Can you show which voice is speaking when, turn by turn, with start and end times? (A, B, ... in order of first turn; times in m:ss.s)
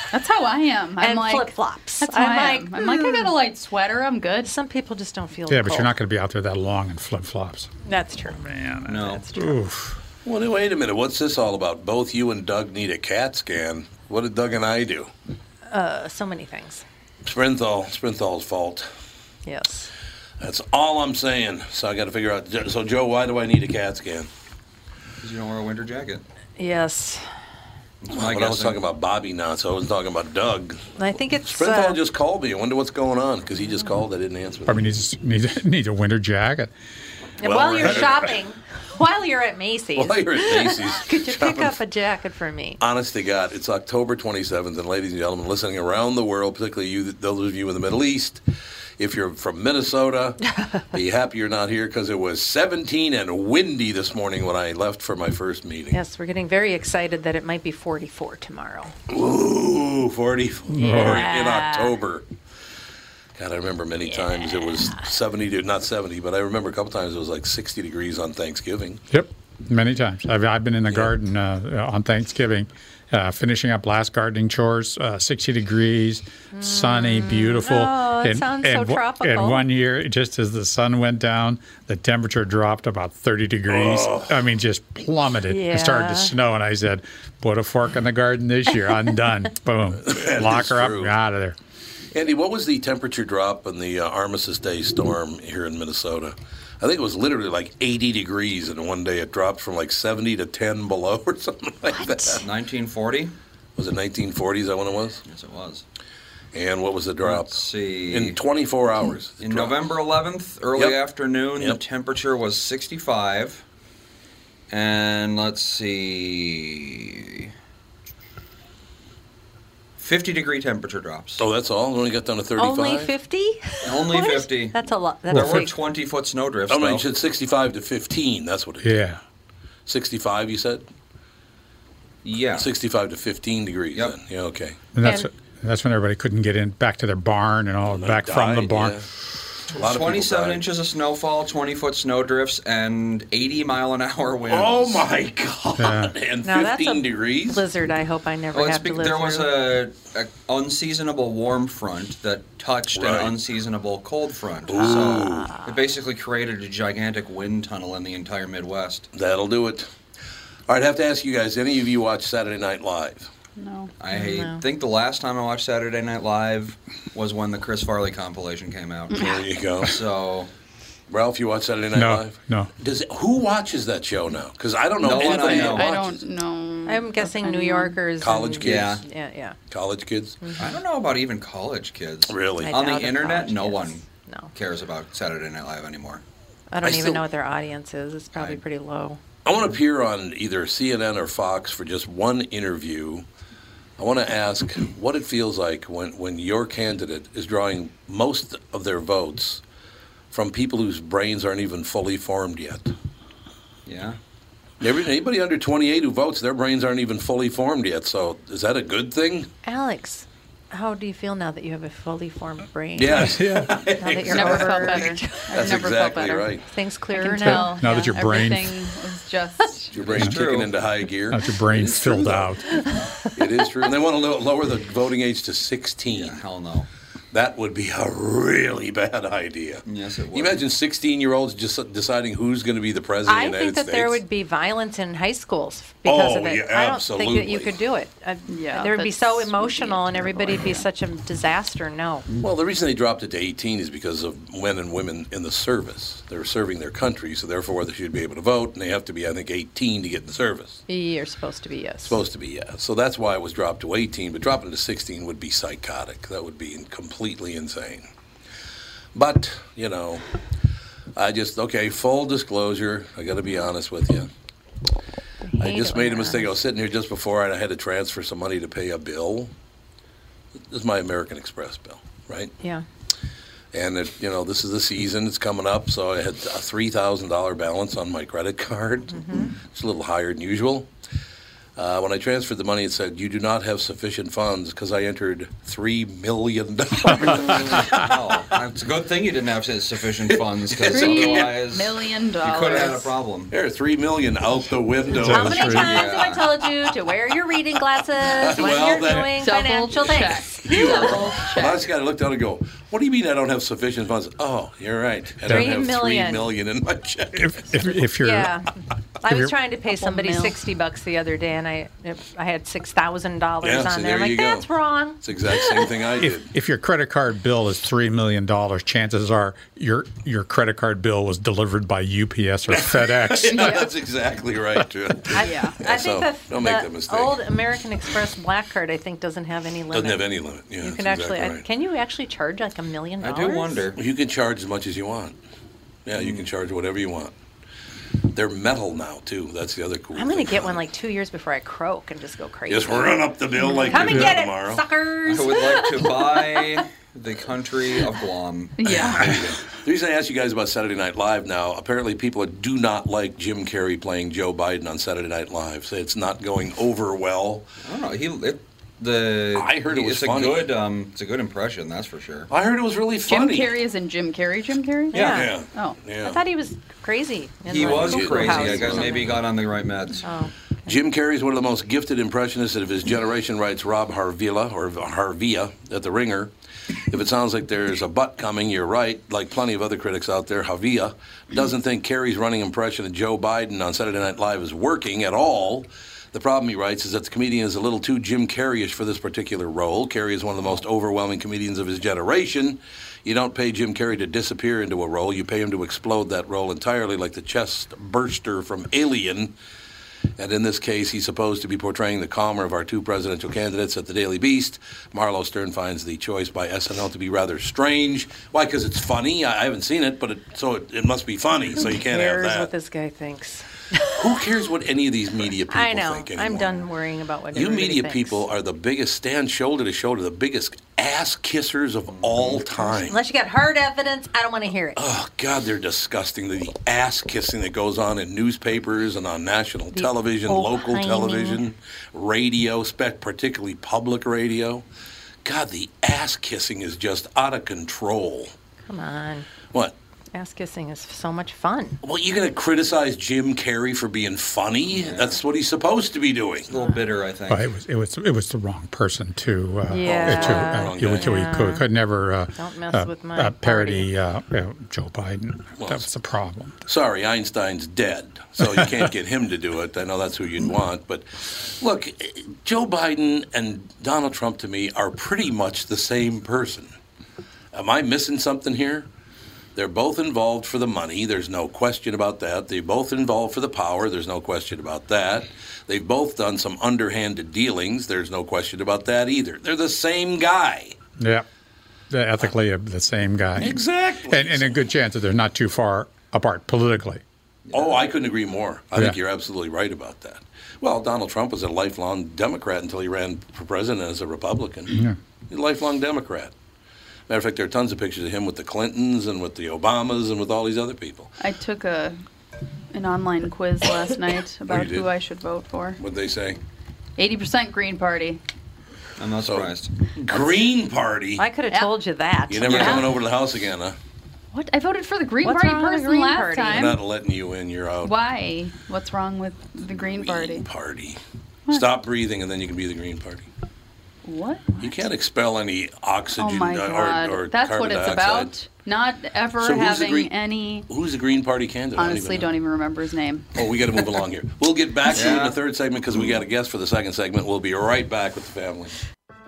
0:00.1-0:04.5 A
0:01.0-0:03.3 B
0:04.4-0:05.9 B
0:05.5-0:07.7 C
0:07.8-0:08.4 B
0:08.3-0:10.0 C
0:08.8-0:09.2 D
0:08.9-0:09.6 B
0:10.2-0:15.1 E
0:15.7-0:16.8 B
0:17.2-0:18.9 E
0:19.4-0:19.9 B
0:20.4-0:24.3 E
0:25.2-0:26.2 D
0:26.6-0:27.2 B
0:28.0-0:28.8 D
0:28.1-0:30.8 E
0:31.0-0:32.0 B
0:31.4-0:34.7 E
0:34.6-0:36.7 C
0:37.4-0:42.8 B
0:37.4-0:38.3 E
0:40.0-0:41.8 E
0:42.8-0:48.4 E
0:49.0-0:56.0 E
0:55.9-0:58.9 B
0:59.1-1:02.2 E
1:00.7-1:01.3 C
1:00.8-1:01.9 A
1:03.4-1:09.0 E
1:09.1-1:31.5 C
1:10.9-1:11.1 E
1:16.5-1:19.6 B
1:23.7-1:24.3 E
1:25.5-1:26.3 B
1:30.0-1:31.1 E
1:32.1-1:42.4 E
1:42.0-1:42.4 B
1:42.4-1:43.3 D
1:43.8-1:45.2 E
1:45.2-1:45.8 D
1:46.5-1:49.8 E
1:47.2-1:48.4 D
1:49.4-1:53.6 D
1:54.7-1:57.5 D
2:00.0-2:01.4 D
2:01.4-2:03.1 E
2:02.6-2:05.7 B
2:03.8-2:04.8 D
2:05.3-2:05.7 C
2:05.3-2:07.0 D
2:06.7-2:09.0 E
2:08.8-2:09.2 C
2:09.8-2:10.8 E
2:12.2-2:12.7 D
2:12.6-2:14.8 E
2:14.9-2:19.0 C
2:15.0-2:15.3 B
2:17.9-2:19.1 E
2:19.7-2:20.6 E
2:19.7-2:25.0 D
2:24.5-2:27.6 E
2:25.8-2:26.1 C
2:26.4-2:29.6 B
2:28.5-2:39.1 D
2:32.9-2:33.3 E
2:34.7-2:35.5 E
2:34.7-2:35.7 B
2:39.1-2:39.9 E
2:40.7-2:43.3 E
2:43.6-2:43.9 A
2:44.0-2:50.5 D
2:44.1-2:44.6 B
2:49.1-2:49.4 A
2:49.1-2:49.9 E
2:51.1-2:56.1 E
2:51.9-2:52.7 C
2:55.0-2:56.1 D
2:55.2-2:58.0 A
2:56.8-2:59.6 B
2:58.2-2:59.0 E
2:58.6-2:59.0 D
2:59.7-3:00.4 E
3:00.4-3:00.7 B
3:00.6-3:06.2 D
3:02.3-3:02.7 E
3:02.6-3:04.5 B
3:06.7-3:09.2 B
3:06.8-3:07.2 E
3:08.3-3:08.6 D
3:09.4-3:13.2 E
3:14.0-3:19.6 E
3:20.3-3:22.9 E
3:23.8-3:24.2 D
3:24.8-3:29.5 E
3:29.6-3:38.4 B
3:33.0-3:36.6 E
3:33.2-3:33.9 C
3:34.2-3:36.6 A
3:37.1-3:40.0 A
3:37.4-3:38.8 C
3:39.9-3:42.6 E
3:40.0-3:40.7 D
3:40.2-3:40.4 C
3:41.3-3:42.7 C
3:43.3-3:46.4 E
3:46.1-3:46.9 D
3:47.3-3:54.2 E
3:49.8-3:50.6 D
3:53.3-4:02.2 B
3:56.0-3:57.7 E
3:58.5-4:00.8 A
4:02.4-4:10.8 E
4:10.9-4:12.2 B
4:12.0-4:18.0 E
4:19.1-4:20.2 E
4:21.2-4:24.3 E
4:25.4-4:26.5 B
4:25.6-4:29.5 E
4:30.7-4:32.5 E
4:32.6-4:32.8 B
4:33.7-4:40.9 E
4:39.1-4:39.5 B
4:41.8-4:47.9 E
4:47.2-4:53.5 D
4:50.7-4:51.6 E
4:50.9-4:53.1 A
4:53.5-4:56.4 E
4:55.1-4:56.0 C
4:55.2-5:01.4 B
4:55.7-4:56.5 D
4:58.4-4:59.3 E
4:59.3-5:01.9 A
5:00.6-5:08.0 E
5:05.5-5:05.8 C
5:05.5-5:06.5 B
5:07.4-5:08.5 C
5:08.2-5:08.7 B
5:09.2-5:15.9 B
5:09.2-5:09.5 C
5:09.9-5:10.6 A
5:13.6-5:14.7 E
5:15.2-5:16.5 E
5:16.2-5:23.9 C
5:22.7-5:27.4 E
5:23.6-5:23.9 A
5:25.3-5:30.3 B
5:25.4-5:25.8 A
5:29.9-5:31.6 E
5:30.8-5:33.9 B
5:33.2-5:34.0 D
5:34.0-5:35.4 E
5:36.0-5:37.3 E
5:36.2-5:36.4 D
5:38.3-5:40.8 E
5:40.2-5:46.8 B
5:42.7-5:44.8 E
5:44.0-5:44.4 C
5:45.2-5:49.2 D
5:48.8-5:49.4 A
5:48.8-5:57.7 E
5:57.8-6:02.5 D
5:59.5-6:00.7 E
6:02.5-6:03.7 E
6:03.3-6:06.0 A
6:05.1-6:05.5 B
6:05.1-6:05.4 D
6:05.2-6:06.4 E
6:06.2-6:09.4 B
6:07.7-6:10.2 D
6:07.7-6:09.4 E
6:10.2-6:10.5 B
6:10.8-6:16.5 E
6:17.1-6:39.5 E
6:40.4-6:52.7 E
6:51.8-6:54.2 B
6:54.1-6:56.8 E
6:55.7-6:58.4 B
6:57.5-7:03.2 E
7:02.1-7:02.6 D
7:02.8-7:05.0 B
7:05.0-7:14.8 E
7:09.9-7:11.6 B
7:15.4-7:18.5 E
7:18.9-7:19.5 B
7:20.3-7:22.0 B
7:22.0-7:26.7 E
7:25.0-7:25.4 D
7:26.7-7:27.7 D
7:27.5-7:36.8 C
7:29.9-7:31.9 B
7:30.0-7:31.4 E
7:32.5-7:34.1 B
7:35.8-7:36.0 E
7:36.9-7:46.9 E
7:38.6-7:38.9 C
7:47.7-7:49.1 E
7:49.7-8:01.0 E
8:01.2-8:01.4 C
8:02.1-8:07.2 C
8:03.6-8:04.8 E
8:07.7-8:08.0 D
8:07.7-8:14.9 E
8:14.9-8:15.2 C
8:15.5-8:16.5 E
8:17.3-8:21.3 E
8:21.4-8:22.2 A
8:22.9-8:26.0 A
8:24.7-8:25.1 E
8:26.0-8:26.6 E
8:27.2-8:28.4 A
8:29.2-8:30.3 D
8:29.4-8:29.7 E
8:30.2-8:31.4 E
8:31.4-8:33.0 B
8:32.5-8:34.0 E
8:32.6-8:33.1 D
8:34.5-8:37.0 A
8:35.4-8:36.9 B
8:36.7-8:38.1 E
8:38.0-8:40.7 A
8:39.9-8:43.5 E
8:44.2-8:44.9 A
8:44.8-8:48.5 E
8:46.4-8:50.9 A
8:49.6-8:50.3 E
8:50.9-8:52.5 E
8:52.0-8:53.6 A
8:53.6-8:58.9 E
8:55.1-8:55.6 D